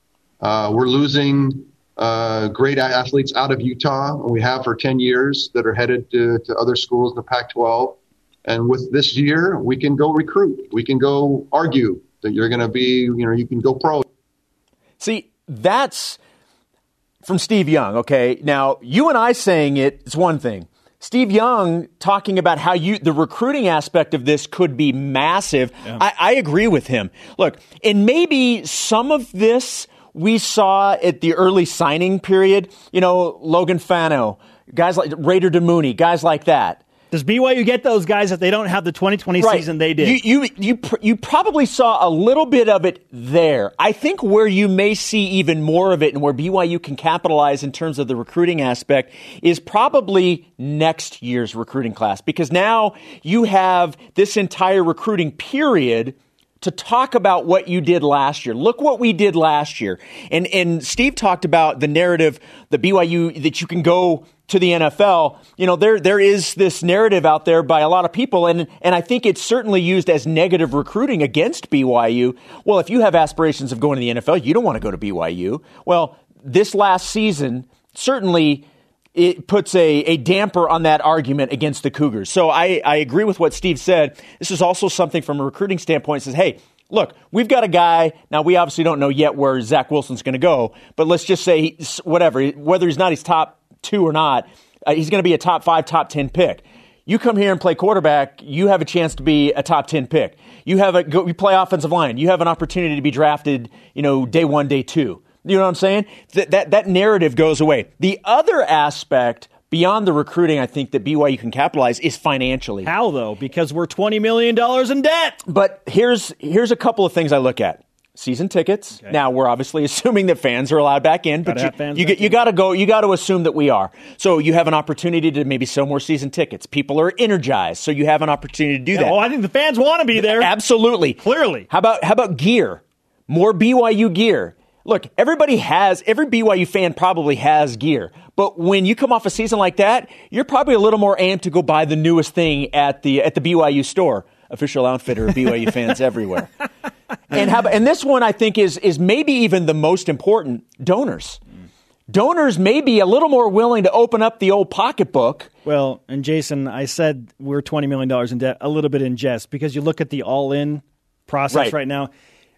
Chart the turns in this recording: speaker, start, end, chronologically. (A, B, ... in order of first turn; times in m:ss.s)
0:00.4-0:14.1 A
0:15.0-0:16.2 B
0:17.2-0:36.8 B
0:37.1-0:40.2 C
0:39.4-1:18.6 B
1:19.2-1:52.9 B
1:52.8-1:55.4 C
1:55.5-2:09.2 B
2:01.4-2:02.4 C
2:08.9-2:10.5 C
2:10.2-2:26.5 B
2:11.2-2:11.7 C
2:27.3-2:31.4 B
2:32.1-2:35.5 B
2:35.6-2:42.1 C